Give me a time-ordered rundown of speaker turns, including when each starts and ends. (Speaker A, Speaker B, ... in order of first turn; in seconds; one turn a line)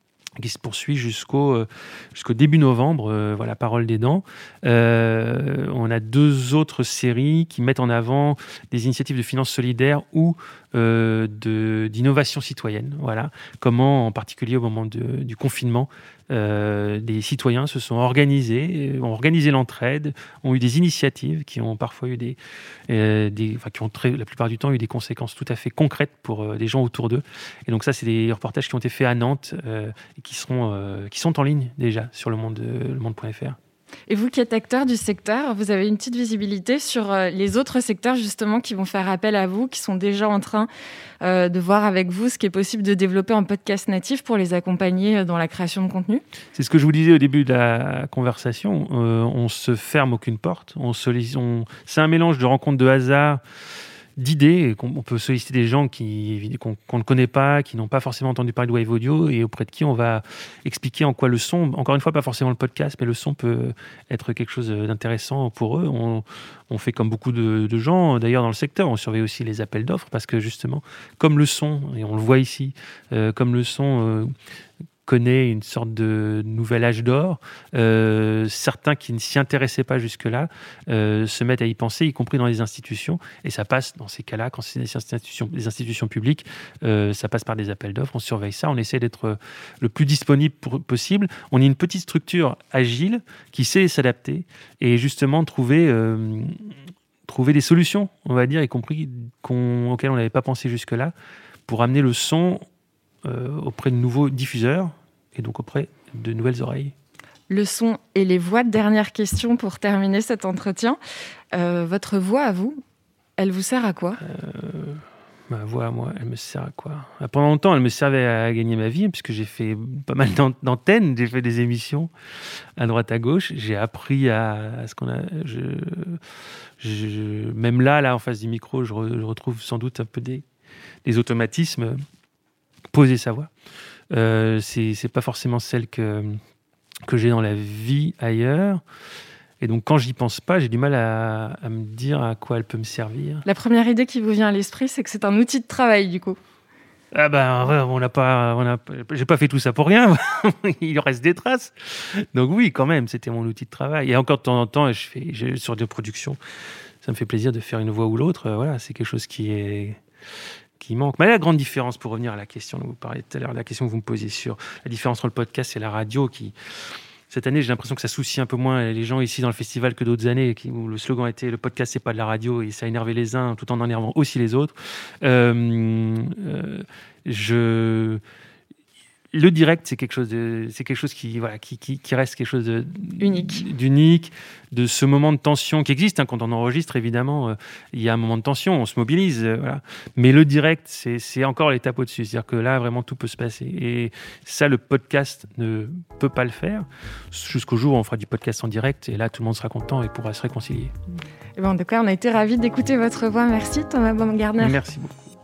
Speaker A: 0.4-22.4
Speaker A: 22.9-33.6
Speaker B: 34.1-40.7
Speaker B: 41.2-46.2
Speaker A: 46.5-53.4
Speaker A: 54.2-74.3
Speaker A: 75.1-96.7
Speaker A: 97.3-101.1
Speaker A: 101.7-102.7
Speaker A: 103.2-106.9
Speaker B: 107.5-111.0
Speaker B: 111.5-112.8
Speaker B: 113.4-114.2
Speaker A: 114.2-122.1
Speaker A: 122.8-126.2
Speaker A: 126.8-130.4
Speaker A: 131.1-132.0
Speaker A: 132.9-133.5
Speaker A: 134.1-136.4
Speaker A: 137.1-138.8
Speaker A: 139.6-143.4
Speaker B: 143.4-146.4
Speaker A: 147.1-156.4
Speaker A: 157.0-160.0
Speaker A: 160.8-166.6
Speaker A: 167.3-178.2
Speaker A: 179.3-200.9
Speaker B: 183.2-183.6
Speaker B: 201.6-204.8
Speaker A: 204.6-205.2